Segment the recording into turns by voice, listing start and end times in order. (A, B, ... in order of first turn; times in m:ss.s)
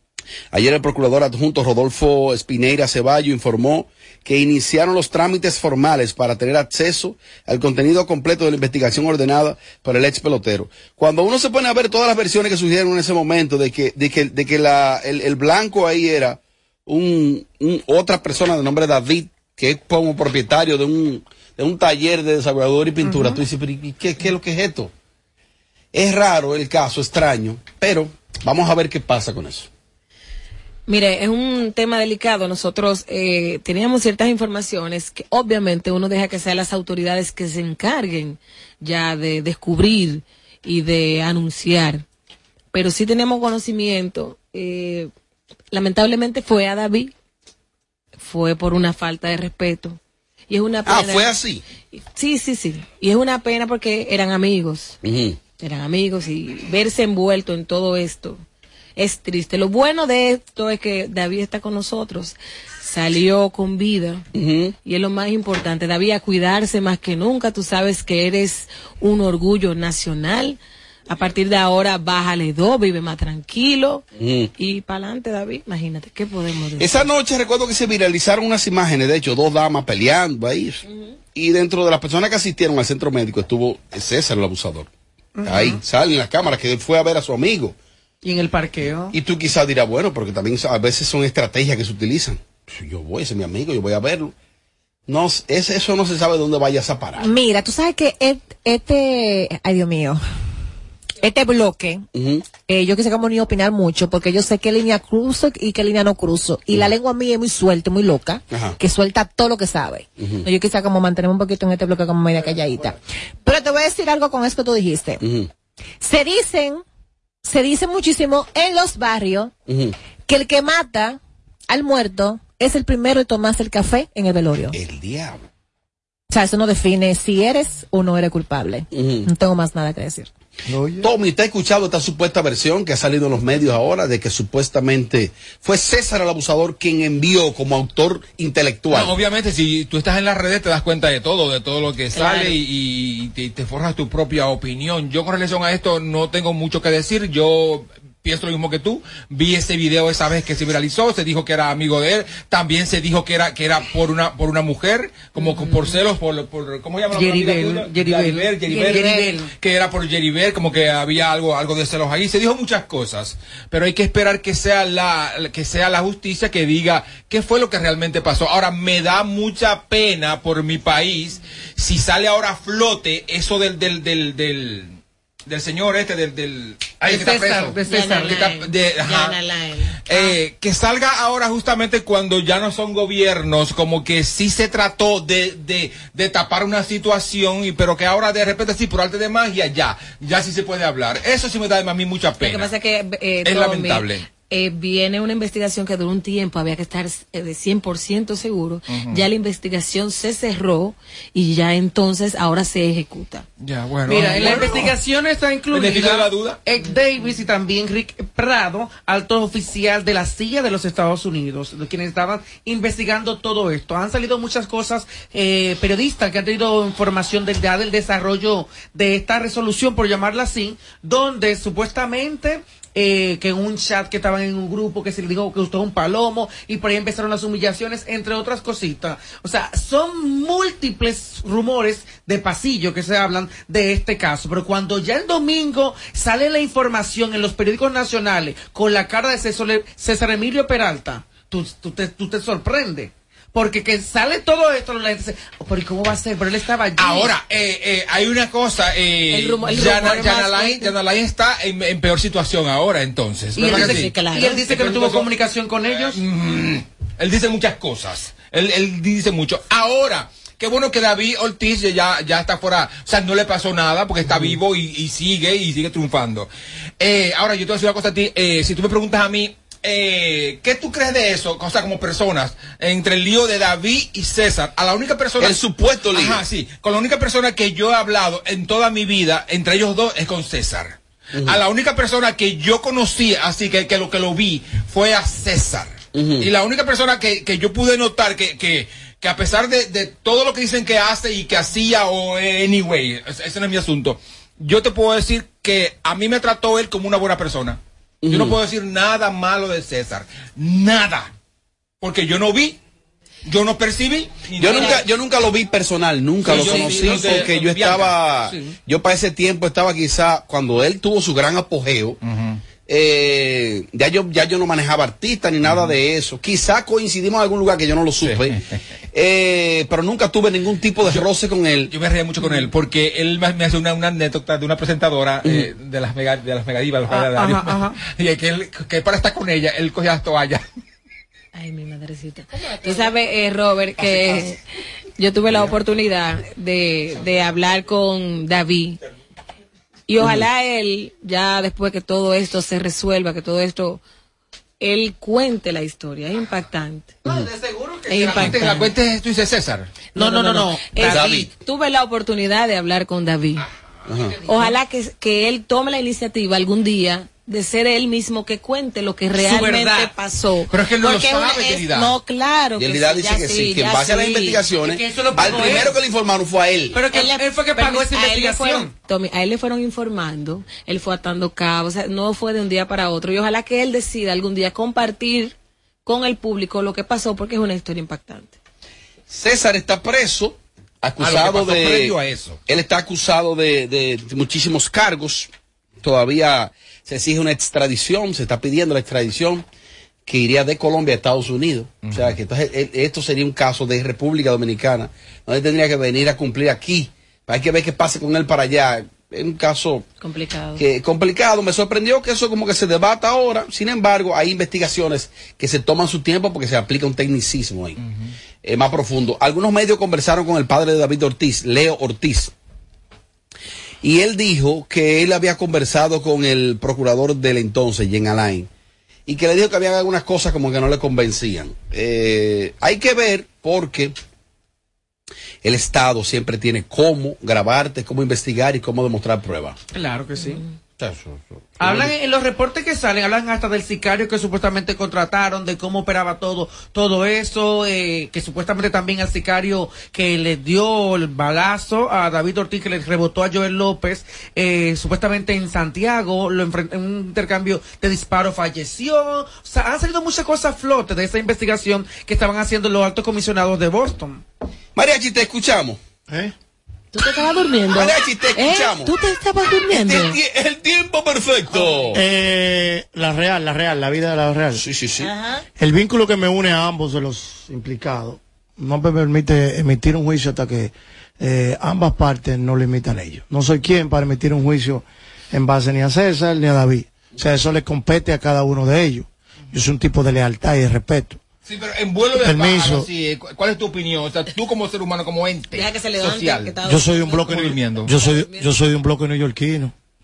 0:00.5-0:24.9 A
0:23.0-0:23.4 B
0:25.9-0:29.7 A
0:30.9-0:42.0 C
0:42.7-0:45.1 C
0:45.7-0:47.1 C
0:48.2-0:51.3 C
0:50.8-0:51.6 A
0:51.9-0:55.0 C
0:55.0-0:55.4 A
0:55.6-0:58.4 C
0:59.0-1:04.2 C
1:04.3-1:04.7 A
1:04.8-1:10.6 C
1:11.1-1:14.0 C
1:14.2-1:14.5 A
1:14.6-1:17.1 C
1:16.8-1:20.8 A
1:21.3-1:24.9 A
1:25.4-1:25.8 B
1:25.4-1:27.7 A
1:28.2-1:29.1 B
1:29.1-1:34.3 A
1:35.1-1:37.3 A
1:37.2-1:40.2 D
1:41.2-1:42.0 D
1:42.1-1:42.5 A
1:42.6-1:55.2 D
1:48.5-1:48.8 A
1:50.2-1:50.4 A
1:55.2-1:55.5 A
1:56.0-1:56.8 D
1:57.4-1:59.5 D
1:59.7-1:59.9 A
2:00.3-2:04.8 D
2:04.7-2:05.4 A
2:06.3-2:10.3 D
2:08.9-2:09.3 A
2:10.6-2:11.1 E
2:11.0-2:19.1 A
2:18.9-2:54.9 F
2:22.1-2:22.6 C
2:35.4-2:35.9 C
2:37.1-2:39.5 B
2:38.7-2:39.3 C
2:55.5-2:59.4 F
2:57.0-2:58.4 B
2:57.8-3:00.4 C
3:00.0-3:12.7 F
3:12.4-3:23.4 C
3:13.4-3:14.2 F
3:18.9-3:19.2 F
3:23.6-3:24.9 F
3:24.1-4:07.3 B
3:25.7-3:26.6 F
4:07.0-4:14.1 F
4:09.3-4:10.9 C
4:13.6-4:16.2 B
4:13.6-4:14.7 C
4:14.6-4:15.3 F
4:15.9-4:35.6 F
4:35.4-4:36.4 A
4:36.1-5:01.3 F
4:41.3-4:41.6 A
4:46.1-4:46.5 A
4:58.2-4:58.6 A
5:02.0-5:02.8 F
5:03.4-5:05.1 F
5:04.6-5:12.2 A
5:06.4-5:08.4 F
5:06.5-5:06.8 B
5:12.2-5:12.6 F
5:12.9-5:18.6 A
5:15.6-5:15.9 F
5:18.2-5:18.6 F
5:19.1-5:21.9 A
5:21.9-5:30.6 F
5:27.1-5:28.0 B
5:31.5-5:34.6 C
5:35.2-5:39.0 C
5:40.1-5:44.0 C
5:44.8-5:47.2 C
5:47.3-5:48.8 B
5:48.1-5:48.9 C
5:48.1-5:49.9 F
5:50.1-5:51.4 B
5:50.1-5:53.7 C
5:51.0-5:51.5 A
5:54.1-5:54.4 A
5:54.4-6:04.6 C
5:59.3-6:00.1 B
6:00.7-6:02.1 F
6:02.8-6:07.0 A
6:04.8-6:06.0 B
6:05.5-6:05.8 C
6:06.9-6:08.9 B
6:07.1-6:18.6 C
6:19.3-6:25.5 A
6:21.2-6:22.6 F
6:26.0-6:29.6 A
6:30.3-6:40.0 A
6:32.0-6:32.4 F
6:40.2-6:40.8 C
6:40.8-6:48.0 A
6:48.6-6:52.5 A
6:54.0-6:58.7 A
6:59.3-7:04.1 A
7:05.6-7:09.8 A
7:09.9-7:10.6 B
7:11.0-7:12.1 A
7:11.8-7:34.4 B
7:35.0-7:36.0 A
7:36.3-7:36.5 E
7:37.1-7:40.4 C
7:37.9-7:39.1 A
7:39.9-7:42.2 A
7:42.1-7:44.8 E
7:44.8-7:45.3 A
7:45.2-7:45.6 C
7:45.8-8:01.4 E
8:01.6-8:06.8 F
8:02.3-8:03.1 E
8:05.7-8:07.6 C
8:06.8-8:09.9 E
8:07.3-8:08.1 F
8:08.1-8:08.7 C